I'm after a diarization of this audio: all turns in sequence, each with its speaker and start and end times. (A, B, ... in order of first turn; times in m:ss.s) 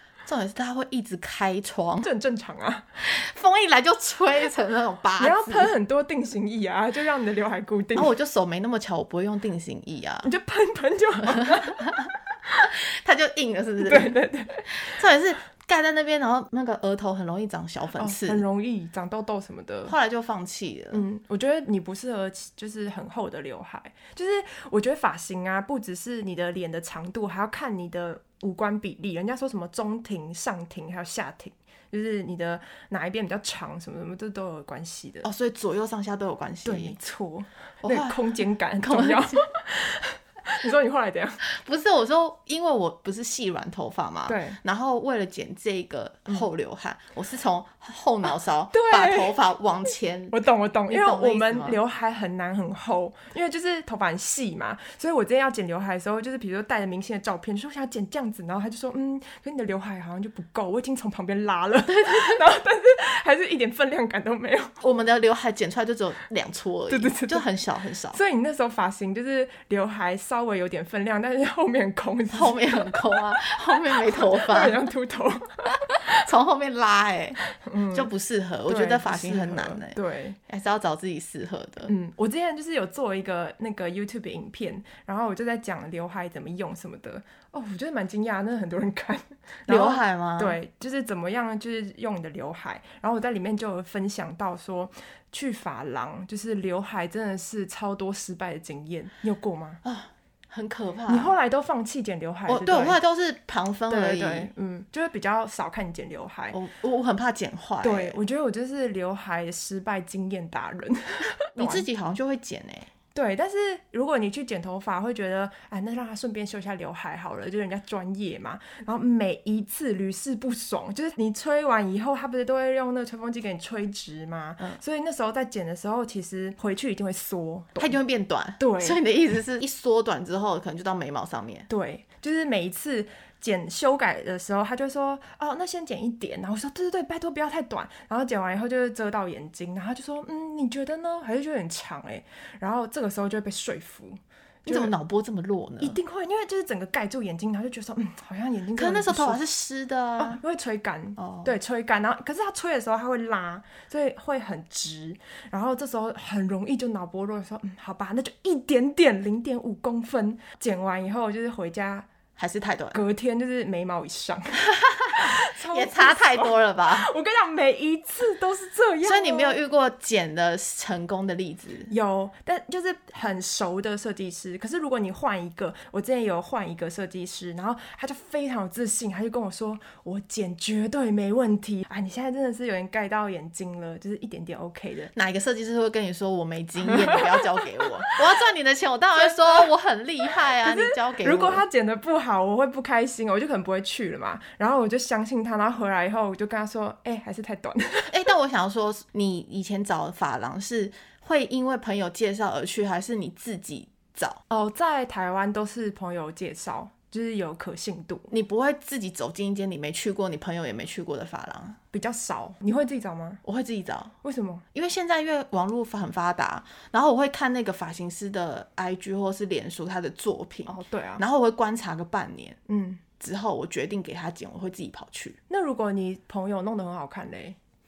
0:00.2-0:02.1 A
0:02.0-0:02.8 B
0:03.0-0:05.7 A
0:05.2-0:08.1 B
0:08.0-0:10.3 A
0:10.2-0:11.9 B
0:11.4-0:14.2 A
0:13.8-0:15.0 B
0:14.7-0:18.4 A
0:18.0-0:19.9 B
0:19.9-0:21.0 A
0:20.9-0:35.3 B
0:35.2-0:37.0 A
0:36.6-0:41.4 B
0:37.8-0:39.4 A
0:41.4-0:51.8 A
0:44.3-0:44.6 B
0:48.7-0:49.4 B
0:50.3-1:04.8 B
1:01.9-1:02.4 A
1:04.8-1:08.2 A
1:06.9-1:07.5 B
1:08.1-1:16.3 B
1:12.3-1:14.8 A
1:16.1-1:17.4 A
1:17.6-1:18.1 B
1:17.9-1:20.0 A
1:18.7-1:20.4 B
1:20.5-1:21.9 A
1:21.9-1:39.8 B
1:29.7-1:30.6 A
1:39.8-1:41.4 A
1:41.1-1:43.0 B
1:42.5-1:44.5 A
1:43.9-1:46.6 B
1:46.5-1:48.2 A
1:47.8-1:51.9 B
1:51.6-1:52.9 A
1:53.1-2:08.0 B
2:07.8-2:11.7 A
2:08.6-2:09.0 B
2:11.7-2:24.9 B
2:24.6-2:26.0 A
2:25.8-2:29.4 B
2:28.8-2:30.4 A
2:30.2-2:42.1 B
2:31.2-2:31.5 A
2:42.4-2:43.0 A
2:42.9-2:49.6 B
2:44.8-2:47.1 A
2:49.0-2:51.9 A
2:51.9-3:05.1 B
3:05.1-3:11.6 A
3:06.9-3:08.1 B
3:09.2-3:09.6 B
3:10.5-3:18.2 B
3:18.1-3:24.4 A
3:24.5-3:28.3 B
3:28.3-3:31.8 A
3:31.9-3:33.4 B
3:33.4-3:34.2 A
3:34.2-3:34.6 B
3:34.7-3:42.6 A
3:40.7-3:41.2 B
3:42.7-3:43.0 B
3:43.2-3:45.4 A
3:45.5-3:47.6 B